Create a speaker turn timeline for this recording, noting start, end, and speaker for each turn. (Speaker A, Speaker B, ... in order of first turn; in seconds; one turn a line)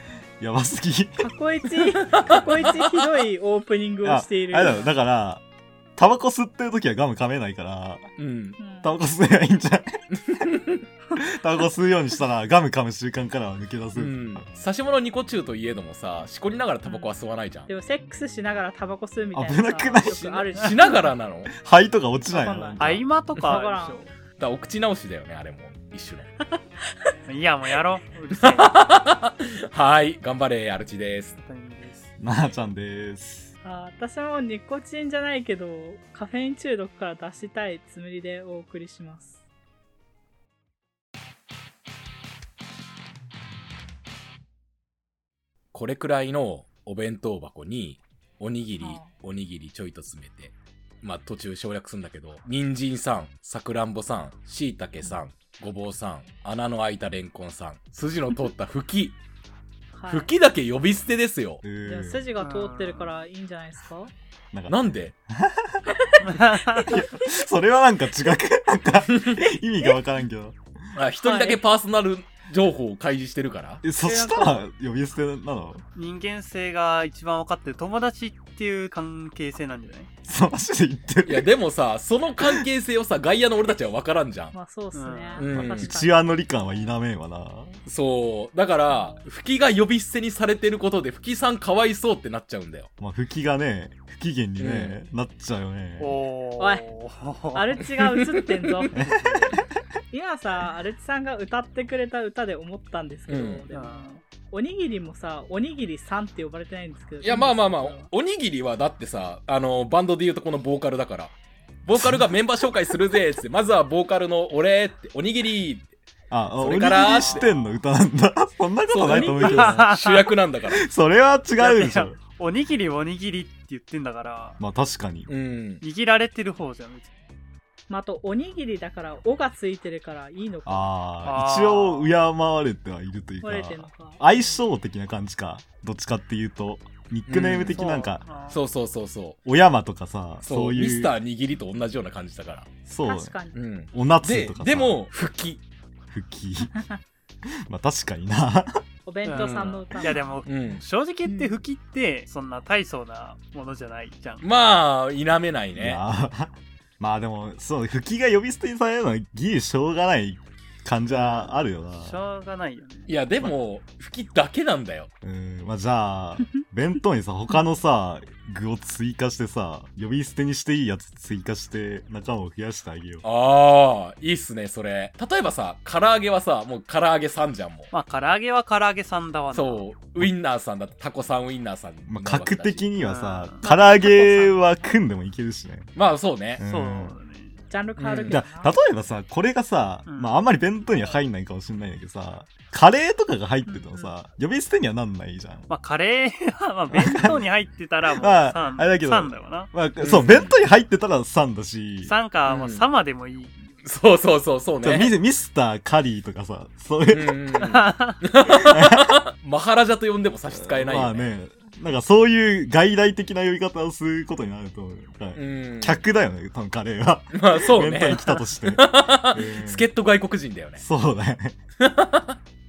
Speaker A: 0.4-1.3
Speaker B: 1.2-4.9
Speaker C: 2.0-3.3
Speaker A: 4.0-5.4
Speaker A: 6.0-8.1
Speaker C: 8.2-8.6
Speaker B: 8.6-8.9
Speaker A: 8.8-10.0
Speaker C: 10.1-10.8
Speaker A: 11.2-14.4
Speaker C: 14.0-17.7
Speaker B: 16.8-17.2
Speaker B: 17.7-21.1
Speaker A: 19.3-20.2
Speaker C: 20.0-21.5
Speaker A: 21.5-23.0
Speaker B: 22.3-22.9
Speaker D: 22.8-24.1
Speaker B: 23.4-24.0
Speaker C: 24.4-26.3
Speaker D: 27.3-28.8
Speaker C: 28.4-31.4
Speaker D: 31.4-32.1
Speaker A: 32.2-33.5
Speaker B: 33.6-39.4
Speaker C: 45.7-59.2
Speaker B: 48.8-49.1
Speaker B: 59.9-60.3
Speaker C: 60.1-61.6
Speaker A: 61.6-62.2
Speaker B: 61.9-64.1
Speaker D: 62.4-63.1
Speaker A: 64.5-66.0
Speaker C: 64.7-65.1
Speaker B: 65.9-67.4
Speaker D: 66.2-67.0
Speaker A: 66.8-70.6
Speaker C: 69.1-69.4
Speaker C: 71.0-73.8
Speaker B: 71.2-71.6
Speaker A: 73.8-75.8
Speaker B: 74.0-74.7
Speaker D: 76.0-80.1
Speaker A: 80.2-81.5
Speaker C: 81.3-84.5
Speaker B: 84.5-87.0
Speaker D: 84.9-85.5
Speaker C: 85.4-85.9
Speaker A: 85.5-87.8
Speaker C: 87.9-92.9
Speaker B: 88.9-89.2
Speaker A: 93.0-96.2
Speaker C: 94.6-95.0
Speaker D: 96.0-97.9
Speaker B: 96.6-96.8
Speaker B: 97.5-99.1
Speaker C: 98.0-98.9
Speaker A: 99.0-99.6
Speaker D: 99.0-99.6
Speaker B: 100.1-108.1
Speaker C: 103.3-103.6
Speaker D: 103.7-104.2
Speaker C: 107.2-115.9
Speaker A: 112.0-112.3
Speaker A: 116.3-119.9
Speaker C: 116.6-117.5
Speaker D: 117.1-117.7
Speaker C: 118.9-120.9
Speaker D: 119.1-120.3
Speaker A: 120.7-122.2
Speaker D: 121.6-124.6
Speaker A: 124.6-125.3
Speaker C: 125.3-125.8
Speaker D: 125.8-127.1
Speaker B: 127.9-130.9
Speaker A: 130.7-138.2
Speaker D: 131.2-132.1
Speaker B: 133.4-134.6
Speaker C: 137.3-137.9
Speaker D: 137.7-138.6
Speaker C: 138.5-139.4
Speaker A: 139.5-141.1
Speaker C: 140.4-142.7
Speaker A: 142.9-145.0
Speaker B: 143.1-143.6
Speaker C: 143.5-145.6
Speaker A: 146.1-146.8
Speaker B: 146.7-147.0
Speaker A: 147.5-148.8
Speaker B: 149.1-150.4
Speaker D: 149.2-154.5
Speaker C: 149.3-150.8
Speaker B: 151.2-151.6
Speaker C: 154.4-156.0
Speaker A: 155.8-162.2
Speaker D: 161.1-163.2
Speaker C: 163.1-165.1
Speaker A: 165.2-173.2
Speaker B: 167.5-167.8
Speaker C: 173.2-177.9
Speaker D: 177.9-179.8
Speaker C: 179.5-182.8
Speaker A: 182.1-185.9
Speaker D: 183.0-183.6
Speaker B: 183.6-185.0
Speaker C: 185.9-186.6
Speaker A: 186.6-187.2
Speaker D: 186.6-187.6
Speaker B: 187.7-188.8
Speaker C: 188.0-188.4
Speaker A: 188.3-195.7
Speaker D: 190.1-190.4
Speaker B: 193.7-194.1
Speaker D: 195.7-199.7
Speaker A: 196.9-197.4
Speaker A: 198.2-202.1
Speaker C: 200.0-200.6
Speaker D: 202.0-203.8
Speaker C: 202.5-202.9
Speaker C: 203.8-205.1
Speaker A: 204.8-207.4
Speaker C: 207.1-211.3
Speaker D: 207.6-208.2
Speaker A: 208.5-209.1
Speaker A: 210.5-219.9
Speaker C: 215.3-216.0
Speaker C: 217.3-220.8
Speaker A: 220.8-221.6
Speaker C: 221.8-222.4